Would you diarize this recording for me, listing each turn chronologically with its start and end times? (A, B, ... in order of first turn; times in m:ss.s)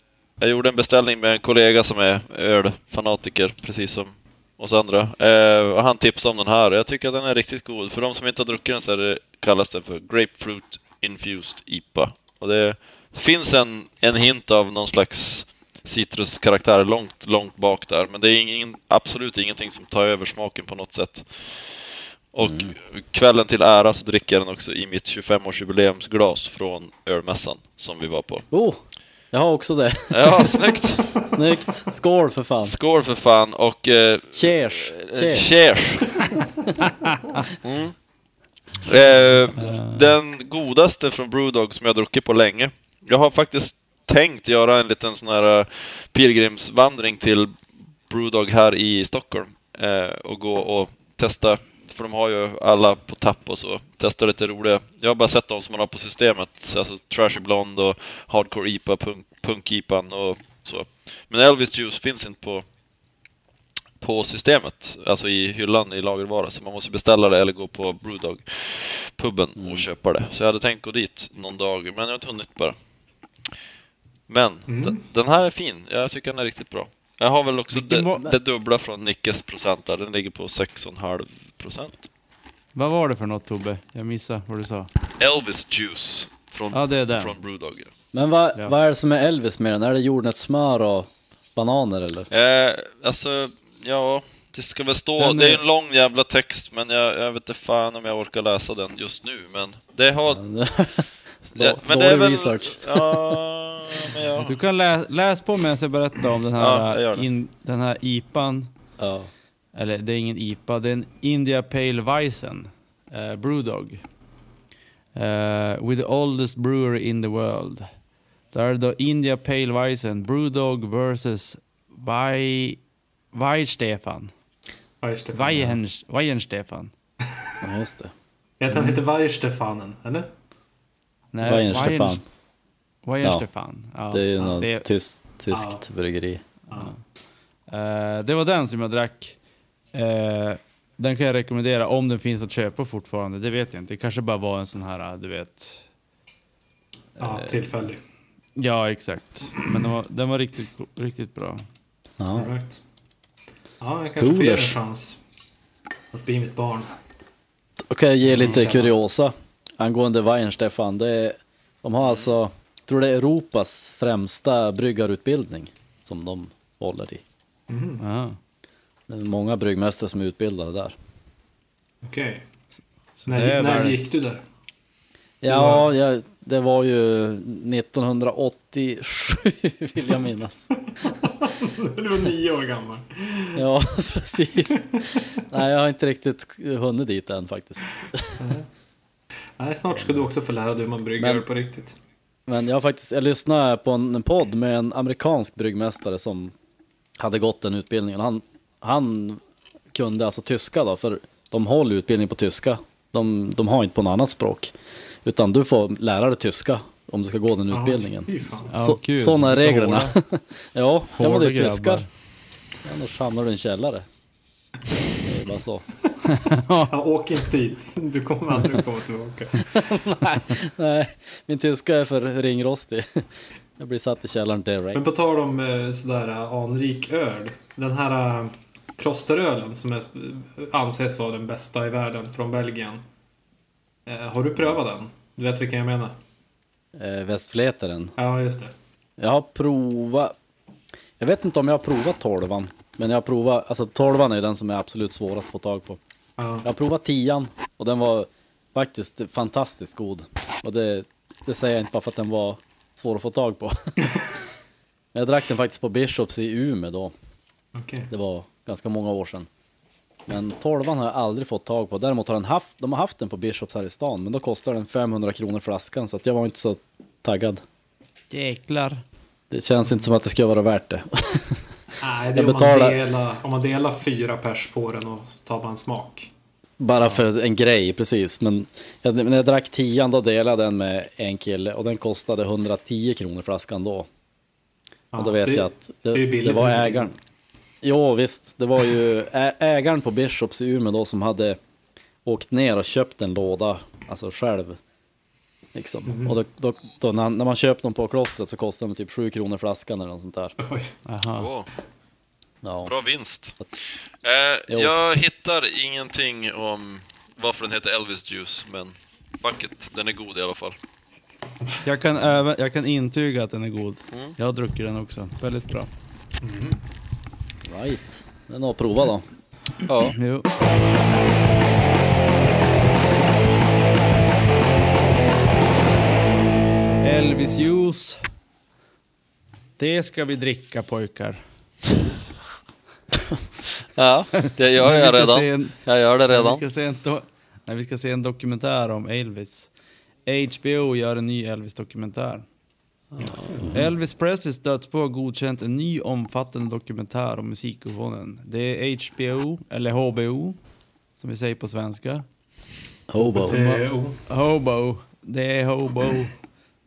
0:00.4-0:21.3 A
0:22.3-0:28.4 A
0:22.4-0:22.7 B
0:28.5-0:28.8 B
0:29.3-0:30.8 B
0:30.1-0:31.1 A
0:31.3-0:32.8 B
0:32.6-0:36.2 A
0:34.3-0:35.5 B
0:36.9-0:37.4 C
0:37.5-0:38.0 A
0:38.8-0:47.5 A
0:39.6-0:40.2 C
0:48.1-1:02.6 A
1:04.0-1:12.8 A
1:09.6-1:09.9 B
1:14.3-1:22.1 A
1:14.7-1:15.0 D
1:17.7-1:18.3 C
1:22.8-1:24.9 C
1:25.2-1:27.9 A
1:26.7-1:27.4 C
1:28.1-1:32.3 B
1:32.3-1:40.4 A
1:35.2-1:35.6 C
1:40.3-1:43.4 B
1:41.6-1:44.6 A
1:44.4-1:48.7 C
1:46.6-1:47.3 A
1:49.0-1:49.3 B
1:49.8-1:54.0 C
1:55.2-1:57.9 C
1:58.5-2:02.8 C
2:03.3-2:04.3 C
2:05.0-2:05.8 D
2:05.3-2:06.9 C
2:07.6-2:08.1 B
2:08.6-2:10.3 D
2:08.7-2:09.0 B
2:11.3-2:12.2 C
2:11.4-2:12.2 B
2:13.0-2:14.9 C
2:14.1-2:16.4 B
2:15.5-2:15.8 D
2:17.7-2:19.4 C
2:19.9-2:25.8 C
2:27.2-2:27.7 C
2:27.2-2:28.0 D
2:28.6-2:31.6 C
2:32.2-2:32.5 B
2:32.3-2:32.8 D
2:33.8-2:35.2 D
2:34.2-2:34.8 B
2:36.1-2:36.9 D
2:37.9-2:47.2 B
2:38.2-2:39.0 D
2:47.7-2:48.0 D
2:48.0-2:48.4 C
2:49.1-2:51.0 B
2:52.0-2:52.4 D
2:53.2-2:54.0 C
2:53.3-2:54.4 D
2:55.4-3:00.8 B
2:55.5-2:55.9 D
3:01.0-3:03.6 D
3:03.6-3:08.6 B
3:08.4-3:08.7 D
3:09.6-3:12.0 D
3:09.9-3:10.2 B
3:11.2-3:11.4 B
3:12.5-3:16.5 B
3:17.2-3:19.4 B
3:19.9-3:32.1 B
3:27.7-3:28.8 D
3:28.7-3:30.2 C
3:31.2-3:32.1 C
3:32.8-3:34.1 B
3:35.2-3:35.8 B
3:36.3-3:36.9 C
3:36.9-3:39.7 D
3:39.7-3:43.3 B
3:43.8-3:45.0 B
3:44.9-3:53.0 D
3:54.1-3:56.2 D
3:57.0-3:58.2 B
3:58.2-3:58.7 D
3:59.2-4:00.3 B
4:01.2-4:06.0 B
4:06.4-4:06.7 D
4:06.6-4:14.2 B
4:15.1-4:17.1 B
4:17.8-4:18.1 D
4:18.1-4:19.5 B
4:20.3-4:27.6 B
4:28.3-4:29.0 C
4:29.5-4:31.6 B
4:32.0-4:36.3 D
4:32.3-4:33.0 B
4:36.8-4:44.1 B
4:45.1-4:47.1 D
4:45.2-4:47.2 B
4:47.8-4:51.6 B
4:52.2-4:54.8 B
4:55.8-5:00.6 B
4:56.1-4:56.4 D
5:00.6-5:00.9 D
5:01.1-5:01.5 C
5:01.4-5:01.7 A
5:02.6-5:02.9 B
5:02.9-5:03.6 A
5:04.2-5:10.8 A
5:04.7-5:04.9 B
5:11.8-5:15.9 C
5:16.4-5:16.8 D
5:17.6-5:19.3 B
5:19.9-5:20.2 A
5:20.0-5:20.5 C
5:27.0-5:28.2 C
5:29.8-5:31.4 C
5:34.0-5:36.6 A
5:34.4-5:35.8 C
5:36.3-5:39.7 C
5:40.3-5:42.4 C
5:43.2-5:43.5 A
5:43.2-5:43.8 D
5:43.6-5:43.9 B
5:43.7-5:50.6 C
5:51.2-5:52.2 C
5:53.1-5:53.6 B
5:53.2-5:56.3 C
5:53.4-5:54.2 D